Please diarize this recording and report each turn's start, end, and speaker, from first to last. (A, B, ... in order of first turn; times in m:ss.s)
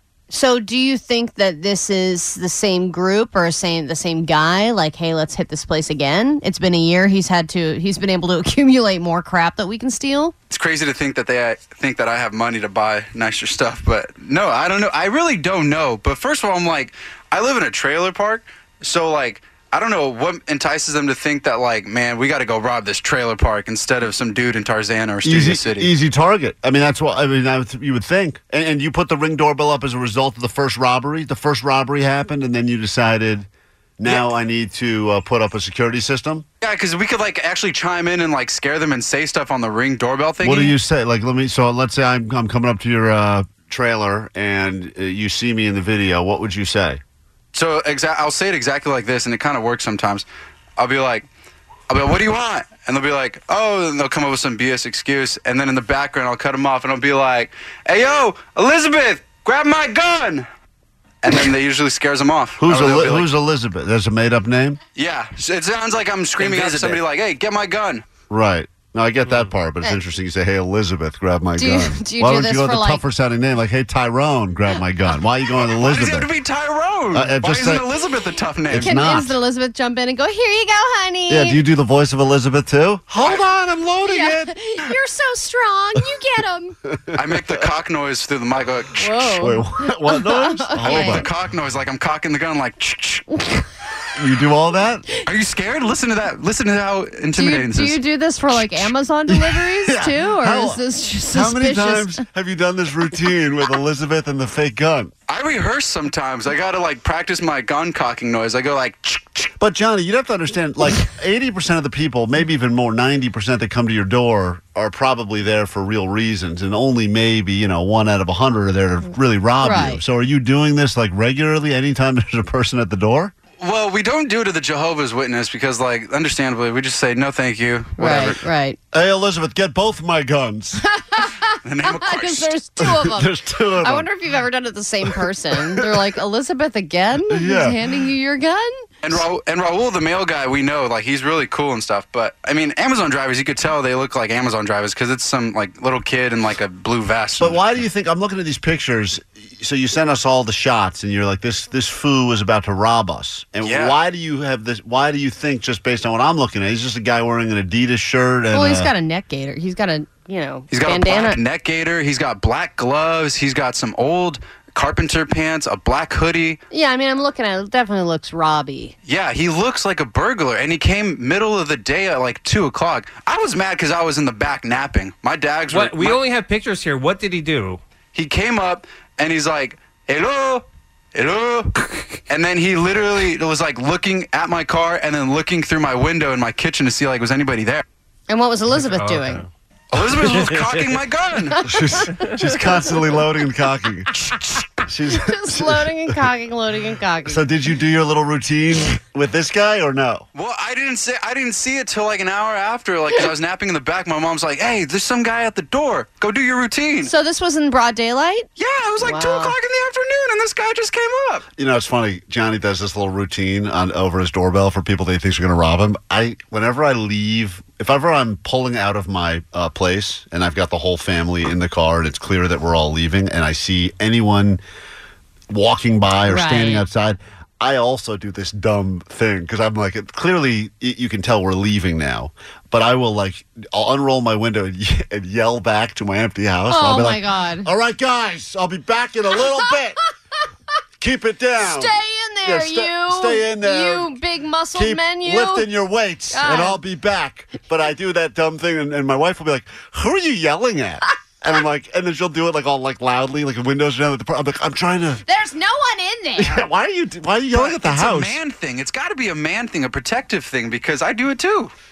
0:00.3-0:10.3 A
0:10.5-0:25.9 B
0:25.2-0:33.5 C
0:34.0-0:36.4 C
0:36.6-0:40.8 B
0:40.4-0:47.0 C
0:47.5-0:50.2 B
0:50.8-0:51.3 B
0:51.9-1:00.5 B
1:01.2-1:03.3 B
1:02.6-1:04.8 C
1:05.0-1:08.0 B
1:08.3-1:16.3 C
1:11.6-1:13.0 A
1:15.7-1:18.9 B
1:17.1-1:17.9 C
1:18.7-1:19.4 C
1:18.7-1:21.6 A
1:21.3-1:24.5 C
1:24.0-1:26.8 A
1:26.9-1:27.6 C
1:27.2-1:29.0 B
1:28.9-1:31.3 A
1:29.1-1:31.3 C
1:30.8-1:33.2 B
1:33.3-1:33.7 A
1:34.2-1:35.1 C
1:35.2-1:38.0 B
1:37.3-1:42.2 A
1:39.3-1:45.1 C
1:45.3-1:49.5 B
1:49.6-2:03.3 C
1:59.6-2:00.0 A
2:03.6-2:08.4 B
2:08.0-2:08.8 A
2:08.9-2:10.8 C
2:10.9-2:18.8 A
2:11.6-2:12.5 B
2:12.8-2:14.1 C
2:15.1-2:15.9 C
2:17.3-2:18.0 C
2:19.0-2:27.8 B
2:27.4-2:38.9 C
2:33.6-2:34.0 B
2:38.5-2:41.4 A
2:40.7-2:46.6 B
2:46.7-2:48.9 A
2:49.0-2:56.2 B
2:55.7-2:57.8 D
2:58.1-3:07.8 B
3:08.3-3:09.4 A
3:09.9-3:11.6 B
3:11.6-3:14.3 C
3:14.8-3:16.2 C
3:15.1-3:17.4 A
3:17.3-3:20.2 C
3:20.3-3:27.1 B
3:27.0-3:29.6 A
3:28.6-3:31.4 B
3:31.6-3:44.6 C
3:45.5-4:00.0 C
3:46.3-3:46.8 A
3:56.7-3:57.7 A
4:01.0-4:04.1 C
4:01.6-4:05.7 A
4:04.7-4:15.2 C
4:06.3-4:06.8 A
4:15.3-4:16.6 A
4:16.4-4:18.4 C
4:17.5-4:21.7 B